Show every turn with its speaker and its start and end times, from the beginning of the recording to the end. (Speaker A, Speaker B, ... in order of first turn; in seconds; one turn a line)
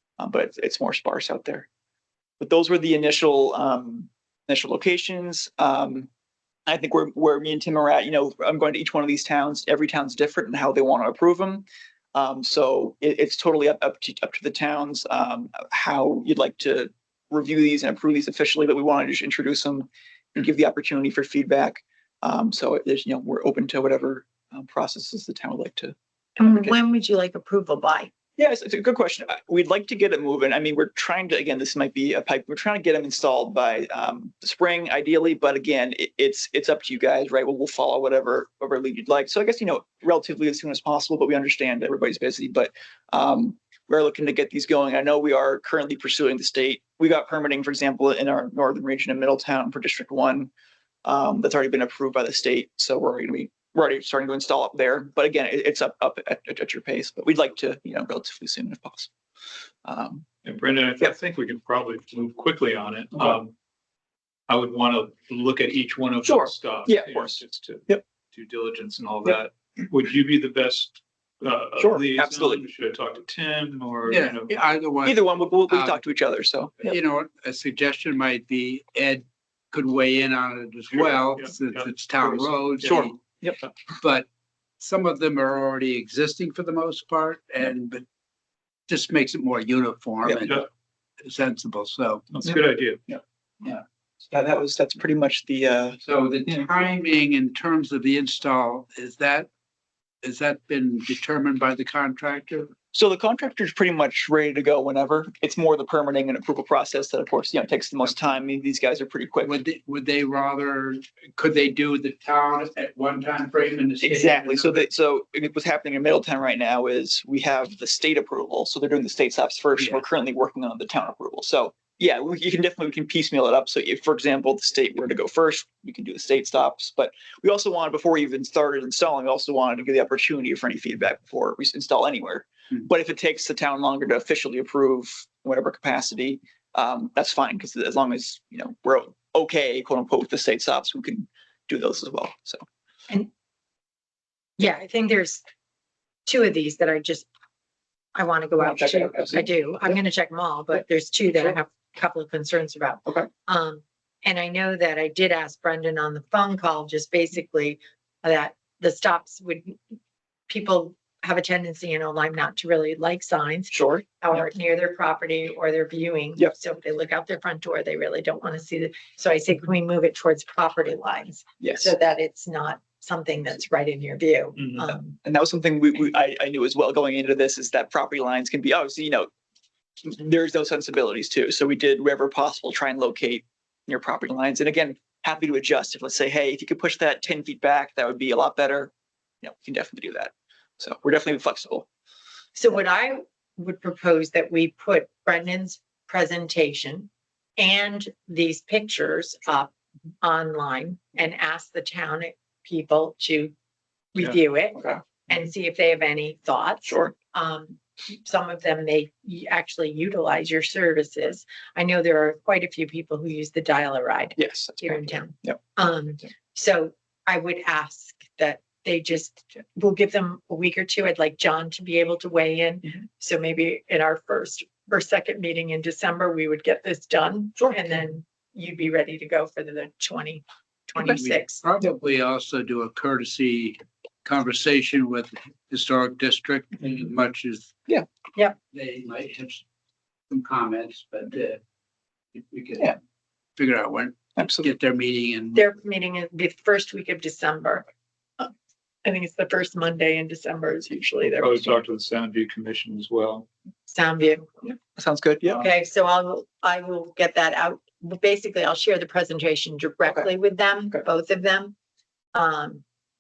Speaker A: 0.2-1.7
Speaker A: 2.4-6.1
Speaker A: 6.7-26.8
Speaker B: 26.4-28.1
Speaker A: 28.4-50.5
Speaker A: 51.0-59.1
Speaker A: 59.9-60.3
Speaker C: 60.4-63.5
Speaker C: 64.5-74.6
Speaker A: 66.2-68.0
Speaker A: 71.8-72.6
Speaker D: 74.1-76.0
Speaker A: 75.0-77.0
Speaker D: 76.8-83.2
Speaker C: 81.4-82.4
Speaker A: 82.8-83.6
Speaker D: 84.0-84.3
Speaker D: 84.8-88.0
Speaker D: 88.9-90.7
Speaker D: 91.2-92.2
Speaker C: 92.3-93.0
Speaker A: 93.1-96.6
Speaker D: 96.0-99.5
Speaker D: 100.2-102.7
Speaker A: 102.9-109.5
Speaker D: 109.4-114.9
Speaker A: 114.0-142.7
Speaker D: 119.8-120.0
Speaker B: 144.6-145.4
Speaker B: 146.3-147.3
Speaker B: 148.2-159.9
Speaker A: 148.6-149.4
Speaker B: 160.5-175.2
Speaker A: 163.7-164.2
Speaker A: 171.6-171.9
Speaker A: 175.2-179.3
Speaker A: 180.0-191.9
Speaker B: 192.6-203.5
Speaker B: 204.1-231.6
Speaker A: 206.9-207.1
Speaker A: 214.4-215.6
Speaker D: 231.0-237.7
Speaker D: 238.7-239.6
Speaker D: 240.3-241.6
Speaker D: 242.3-243.0
Speaker D: 243.6-245.6
Speaker A: 244.4-244.7
Speaker B: 245.5-247.9
Speaker B: 249.0-251.8
Speaker C: 251.3-253.5
Speaker B: 253.9-254.8
Speaker A: 255.0-255.7
Speaker B: 255.4-261.8
Speaker B: 262.3-262.8